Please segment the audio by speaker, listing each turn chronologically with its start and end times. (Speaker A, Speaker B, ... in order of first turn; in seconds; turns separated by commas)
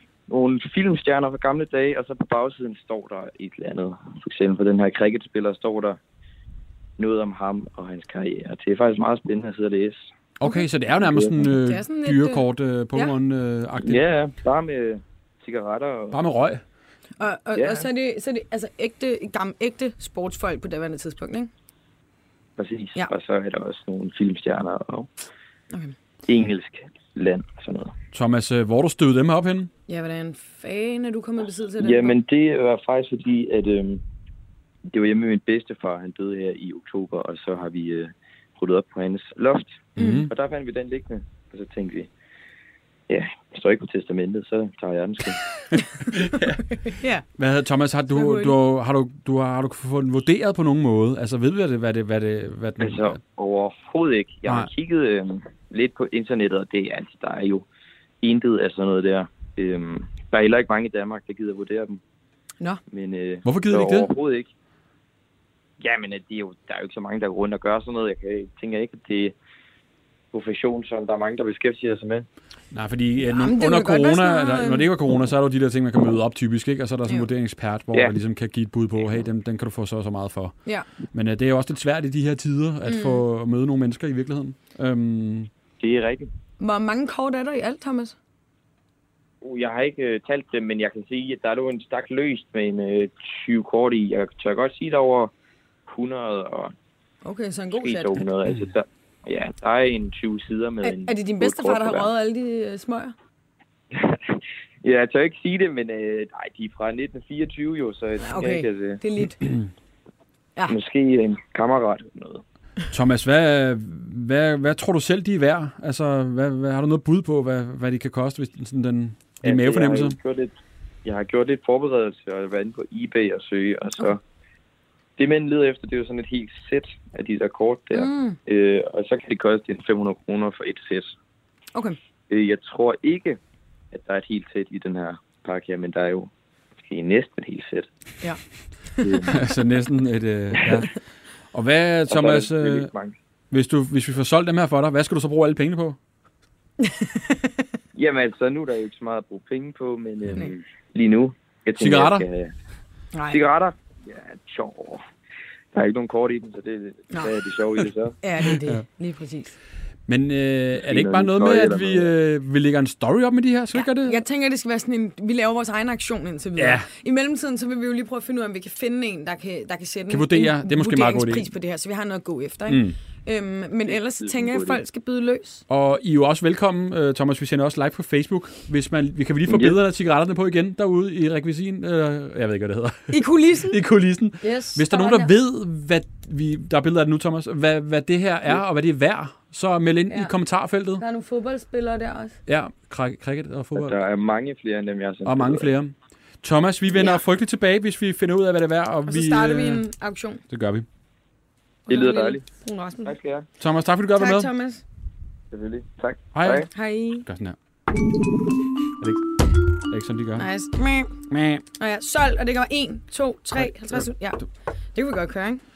Speaker A: 0.3-6.0, Speaker A: 7.0-10.1, Speaker B: 10.4-14.0, Speaker A: 11.0-11.4, Speaker C: 11.6-13.1, Speaker A: 13.8-16.2, Speaker B: 16.1-16.6, Speaker C: 17.2-21.5, Speaker A: 17.6-17.9, Speaker A: 22.6-25.1, Speaker A: 26.3-27.9, Speaker B: 28.1-29.7, Speaker C: 29.9-32.2, Speaker A: 31.8-34.0, Speaker A: 34.9-42.1, Speaker B: 40.0-40.3, Speaker C: 40.0-40.2, Speaker A: 43.1-45.4, Speaker B: 46.1-46.6, Speaker C: 46.6-47.2, Speaker B: 47.4-53.2, Speaker C: 48.1-48.5, Speaker A: 52.8-57.6, Speaker A: 58.2-62.0, Speaker A: 62.9-64.5, Speaker B: 63.5-64.1, Speaker A: 65.8-69.3, Speaker A: 70.3-72.3, Speaker B: 72.7-80.6, Speaker C: 73.2-74.9, Speaker B: 81.1-85.5, Speaker C: 82.8-83.2, Speaker A: 85.8-86.3, Speaker C: 86.6-88.1, Speaker A: 89.4-95.3, Speaker A: 95.9-96.7, Speaker C: 97.2-98.2, Speaker A: 97.8-102.1, Speaker C: 100.8-103.1, Speaker A: 103.9-109.0, Speaker C: 108.2-109.4, Speaker A: 110.7-112.4, Speaker B: 112.9-120.2, Speaker A: 119.4-120.5, Speaker A: 121.0-124.2, Speaker A: 125.2-131.1, Speaker C: 128.0-128.4, Speaker A: 132.3-133.4, Speaker A: 133.9-136.3, Speaker A: 136.8-137.9, Speaker A: 139.0-139.4, Speaker B: 139.3-140.9, Speaker B: 141.5-142.9, Speaker A: 142.1-143.2, Speaker B: 143.5-146.0, Speaker C: 146.8-147.6, Speaker A: 147.9-152.5, Speaker B: 151.8-152.3, Speaker C: 153.1-153.4, Speaker A: 153.3-155.0, Speaker A: 155.7-158.2, Speaker C: 158.2-159.5, Speaker B: 160.1-164.2, Speaker A: 160.8-162.1, Speaker C: 163.7-175.6, Speaker B: 166.6-166.9, Speaker B: 170.1-171.5, Speaker B: 172.7-173.0, Speaker A: 173.9-174.8, Speaker B: 175.7-191.0, Speaker A: 179.5-179.8, Speaker C: 183.1-183.8, Speaker C: 184.4-185.3, Speaker C: 191.0-192.4, Speaker B: 192.5-194.0, Speaker A: 193.8-195.7, Speaker B: 195.2-199.8, Speaker C: 196.9-197.2, Speaker C: 199.1-200.4, Speaker B: 200.5-200.9, Speaker A: 201.9-202.4, Speaker C: 201.9-203.2, Speaker A: 203.1-203.5, Speaker B: 203.6-204.5, Speaker C: 204.2-204.8, Speaker A: 205.5-206.7, Speaker B: 206.3-206.7, Speaker C: 206.7-207.3, Speaker B: 207.2-207.6, Speaker B: 209.0-209.3, Speaker B: 209.9-210.5, Speaker C: 210.4-211.1, Speaker B: 211.3-211.6, Speaker C: 211.8-215.6, Speaker B: 213.6-214.1